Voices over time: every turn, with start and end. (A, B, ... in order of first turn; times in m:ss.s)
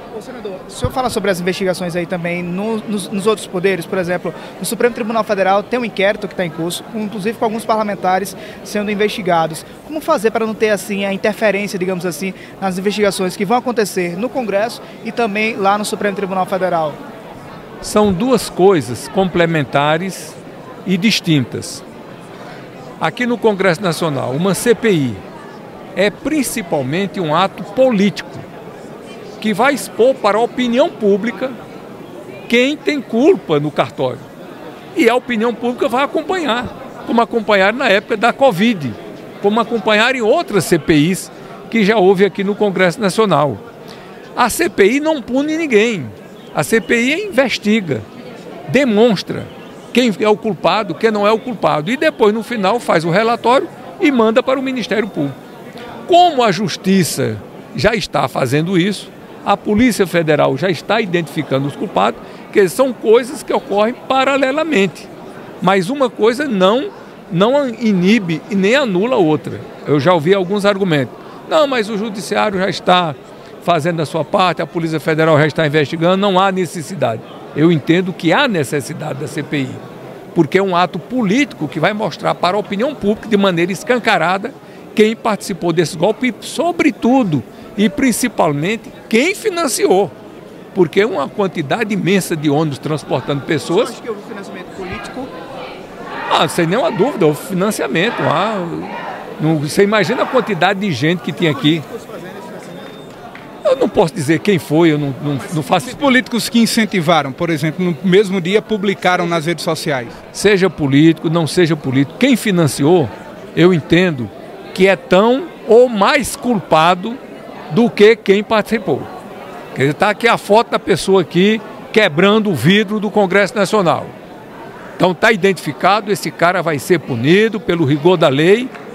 0:00.2-0:17.0 A
0:17.8-0:21.8 B
0:23.0-0:25.2 B
0:25.9-0:28.4 B
0:29.4-0:31.6 B
0:32.5-0:34.2 B
0:34.9-0:43.6 B
0:44.3-0:48.0 B
0:48.7-0:55.4 B
0:56.0-1:05.1 B
1:05.6-1:19.8 B
1:20.3-1:30.1 B
1:30.7-1:33.9 B
1:33.7-1:35.3 A
1:36.3-1:41.8 B
1:41.5-1:43.0 A
1:43.6-1:46.2 B
1:45.7-1:50.2 C
1:50.3-1:59.1 B
1:59.7-2:04.2 B
2:05.0-2:08.7 B